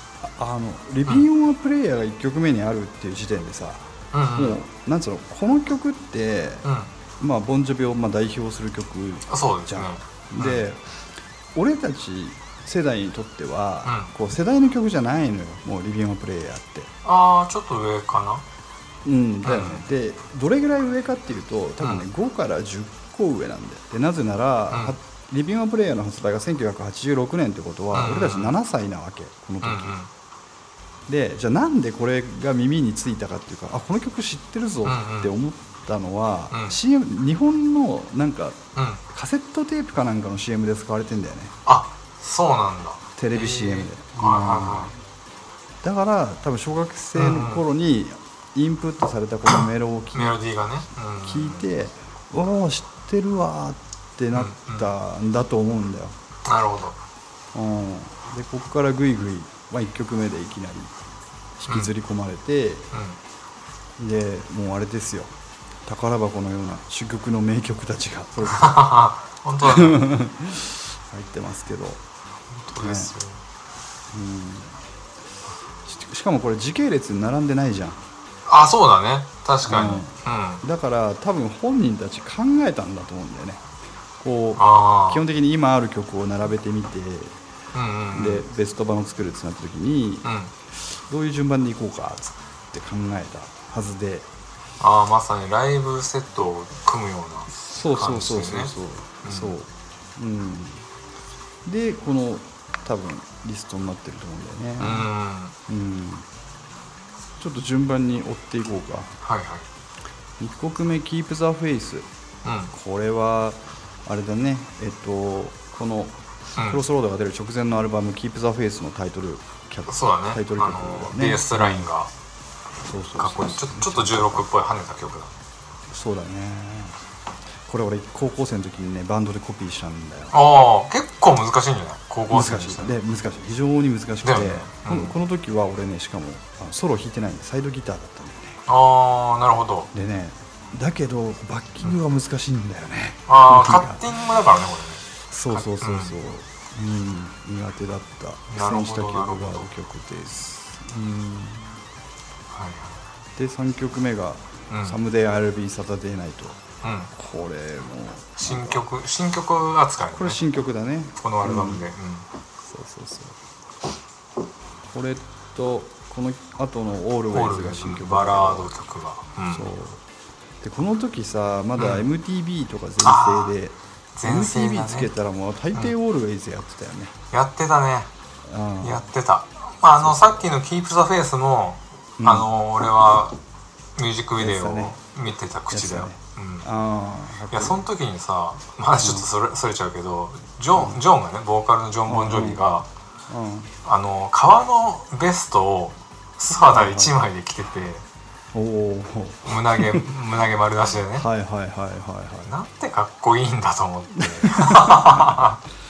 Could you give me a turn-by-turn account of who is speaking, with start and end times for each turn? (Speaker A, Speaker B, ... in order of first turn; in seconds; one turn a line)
Speaker A: 0.2-6.7
Speaker B: 4.1-4.6
Speaker B: 6.6-6.9
Speaker A: 7.2-10.8
Speaker B: 9.3-10.6
Speaker A: 11.5-16.9
Speaker B: 13.8-14.1
Speaker B: 17.0-18.4
Speaker A: 19.0-30.0
Speaker B: 19.4-19.8
Speaker B: 21.8-22.1
Speaker B: 24.7-24.9
Speaker B: 27.9-28.6
Speaker B: 29.6-30.1
Speaker A: 31.1-41.5
Speaker B: 34.8-35.3
Speaker B: 36.5-36.8
Speaker B: 38.8-39.0
Speaker B: 41.6-44.9
Speaker A: 43.2-44.9
Speaker A: 45.8-50.4
Speaker B: 47.1-47.6
Speaker B: 49.5-51.7
Speaker A: 51.2-56.1
Speaker B: 54.3-54.9
Speaker B: 56.4-57.0
Speaker A: 57.5-61.0
Speaker A: 61.6-62.9
Speaker B: 62.9-63.2
Speaker A: 64.0-65.3
Speaker A: 65.8-68.9
Speaker B: 68.5-70.0
Speaker A: 69.6-72.0
Speaker B: 72.5-73.4
Speaker A: 72.8-73.1
Speaker A: 74.1-74.8
Speaker A: 75.8-78.0
Speaker B: 78.5-80.6
Speaker A: 79.7-83.6
Speaker A: 84.2-87.4
Speaker B: 84.6-85.2
Speaker B: 87.7-88.4
Speaker A: 88.1-90.3
Speaker B: 90.2-90.5
Speaker A: 90.9-94.3
Speaker B: 94.8-98.7
Speaker A: 97.5-100.9
Speaker B: 99.2-99.5
Speaker A: 101.6-105.1
Speaker B: 104.8-105.5
Speaker A: 105.7-106.3
Speaker A: 107.4-109.1
Speaker B: 109.2-109.7
Speaker A: 110.4-112.1
Speaker B: 112.4-112.7
Speaker A: 112.7-121.9
Speaker B: 116.5-116.8
Speaker B: 119.9-122.1
Speaker A: 122.8-124.5
Speaker B: 123.2-125.3
Speaker A: 125.9-127.0
Speaker A: 127.7-130.3
Speaker B: 130.3-132.9
Speaker A: 132.3-138.6
Speaker B: 134.2-135.1
Speaker B: 138.7-139.9
Speaker A: 139.9-144.1
Speaker B: 143.3-146.2
Speaker A: 145.3-151.8
Speaker B: 148.5-149.7
Speaker B: 152.5-153.0
Speaker A: 153.3-156.6
Speaker B: 154.7-155.0
Speaker B: 156.8-157.1
Speaker A: 157.1-158.8
Speaker B: 158.4-160.4
Speaker A: 160.1-161.8
Speaker B: 161.2-162.3
Speaker A: 162.7-163.3
Speaker A: 164.9-168.8
Speaker B: 167.3-169.7
Speaker A: 169.5-170.0
Speaker A: 170.6-177.1
Speaker B: 171.8-172.1
Speaker B: 173.0-173.5
Speaker B: 174.2-175.1
Speaker B: 177.3-178.1
Speaker A: 178.4-179.0
Speaker B: 178.8-183.4
Speaker A: 180.0-180.5
Speaker A: 182.2-182.5
Speaker B: 183.9-186.7
Speaker A: 184.4-184.9
Speaker A: 185.7-187.8
Speaker B: 187.5-192.9
Speaker A: 189.0-189.3
Speaker A: 190.7-191.0
Speaker A: 192.1-192.6
Speaker A: 193.3-193.7
Speaker B: 193.8-198.0
Speaker A: 196.7-197.1
Speaker A: 198.5-200.1
Speaker B: 199.4-201.3
Speaker A: 201.2-202.5
Speaker B: 202.4-205.6
Speaker A: 204.2-205.5